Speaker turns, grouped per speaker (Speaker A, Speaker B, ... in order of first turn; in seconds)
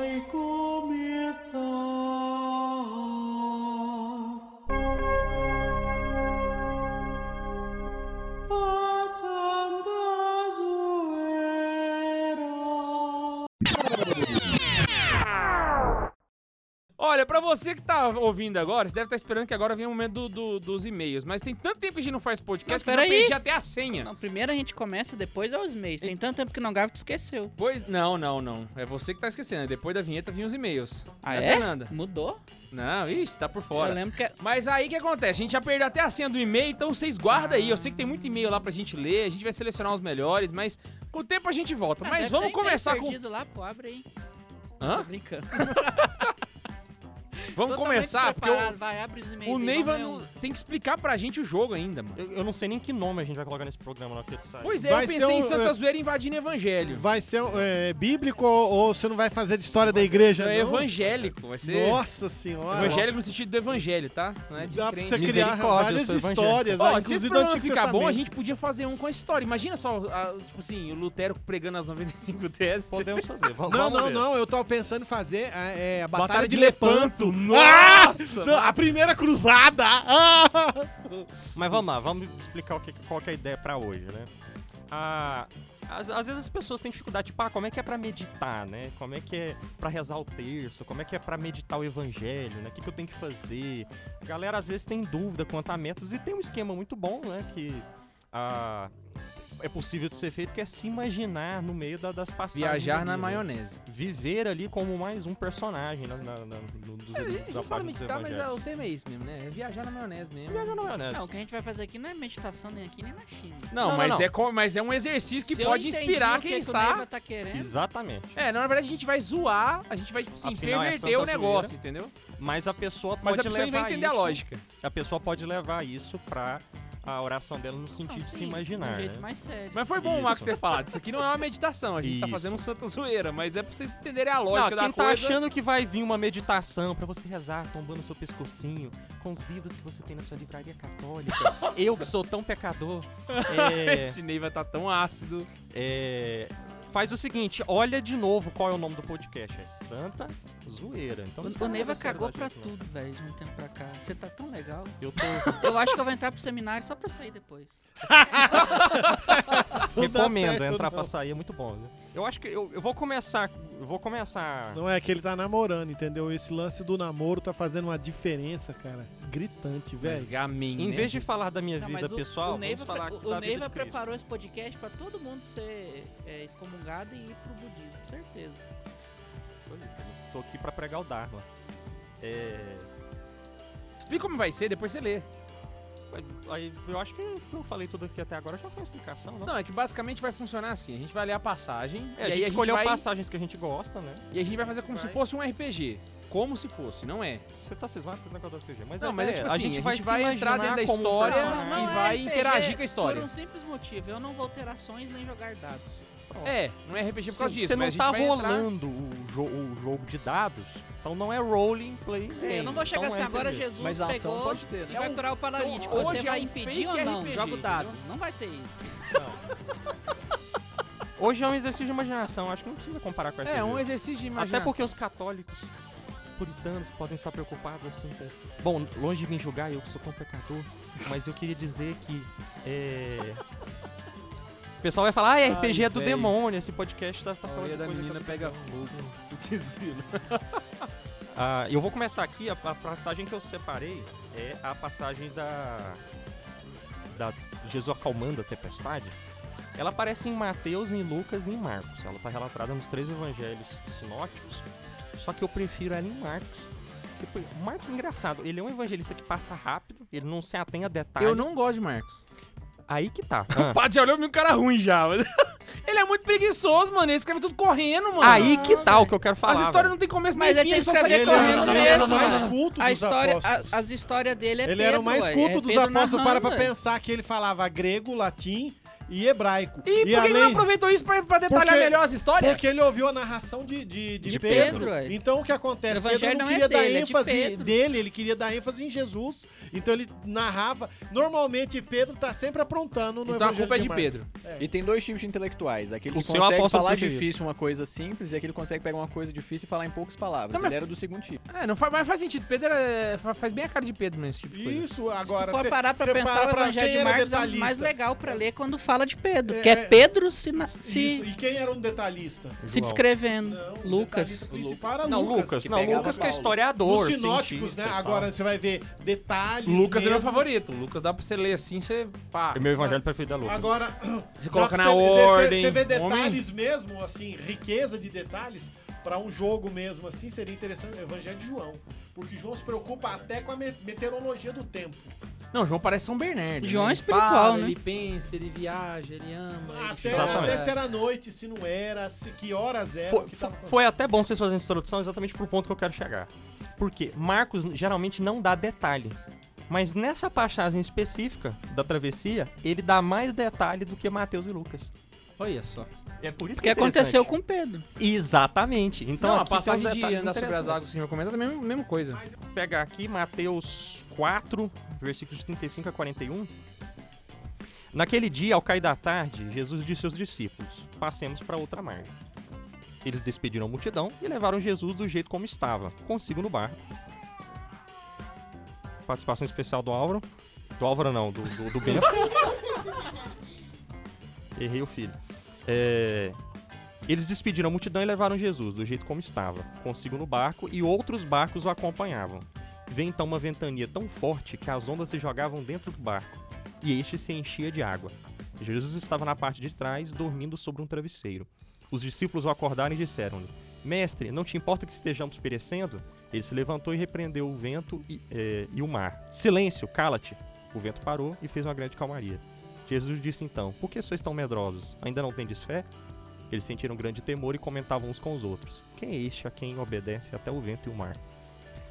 Speaker A: 17.0-24.1, 27.6-31.9, 32.7-43.2, 44.8-46.3, 47.5-48.8, 49.4-52.2, 54.6-57.0, 60.3-62.0, 62.7-65.5, 66.8-73.2, 76.1-78.9, 102.5-103.8, 107.1-110.9, 113.7-117.0, 118.3-122.1, 123.2-124.6, 129.7-135.4, 141.4-141.8, 143.3-145.5, 158.6-158.9, 170.0-171.2, 184.0-185.3, 189.4-193.0, 194.3-197.4, 199.0-203.3, 206.4-208.7, 214.9-218.0, 223.4-224.8, 235.4-236.4, 237.4-240.8, 261.2-262.2, 263.5-268.6, 269.4-272.5, 279.9-282.6, 293.3-294.3, 301.5-304.8, 319.6-322.6, 324.4-326.4, 335.5-340.8, 355.4-355.9, 359.1-362.2
Speaker B: 22.7-27.5, 31.2-32.4, 33.7-34.3, 42.0-44.1, 44.9-46.0, 47.5-50.2, 111.1-113.7, 115.4-117.7, 128.1-129.8, 151.4-158.8, 171.8-178.7, 201.2-206.1, 212.4-219.0, 268.2-269.1, 270.3-276.7, 284.2-285.2, 285.9-287.8, 305.2-311.2, 312.7-314.5, 336.6-337.8, 356.6-357.9
Speaker C: 52.1-54.8, 62.7-63.1, 65.1-66.8, 72.9-74.3, 81.5-84.3, 84.9-98.9, 99.6-108.5, 110.5-111.3, 113.8-114.3, 117.5-118.3, 120.4-121.7, 122.3-129.3, 130.0-130.6, 132.0-132.6, 134.5-144.2, 145.7-152.7, 155.0-155.8, 158.2-164.8, 170.8-174.0, 179.5-181.4, 182.2-182.9, 186.1-189.5, 192.2-195.2, 197.5-202.0, 206.3-206.6, 207.3-213.7, 215.9-216.2, 219.1-219.4, 221.2-225.7, 226.4-233.4, 234.8-239.2, 241.3-246.0, 247.1-249.2, 249.8-261.4, 262.9-263.8, 268.2-269.9, 284.3-284.9, 296.1-297.3, 312.6-313.0, 315.1-318.3, 322.5-323.7, 340.1-340.7, 343.0-349.2, 349.7-354.9, 356.2-357.3, 358.0-360.9, 362.5-366.5, 367.9-372.1, 373.0-376.8, 379.1-380.2, 380.8-382.5, 384.6-386.4, 387.1-415.9, 416.5-421.2
Speaker D: 54.8-55.7, 56.8-60.9, 61.5-63.1, 64.6-68.2, 73.7-81.3, 158.1-161.1, 164.7-170.3, 271.0-273.8, 274.6-280.7, 281.5-294.7, 304.5-308.4, 309.4-310.1, 310.7-312.6, 313.4-320.5, 322.8-335.1, 339.7-343.8
Speaker E: 213.8-215.1, 294.6-301.4, 314.5-314.8, 315.7-316.6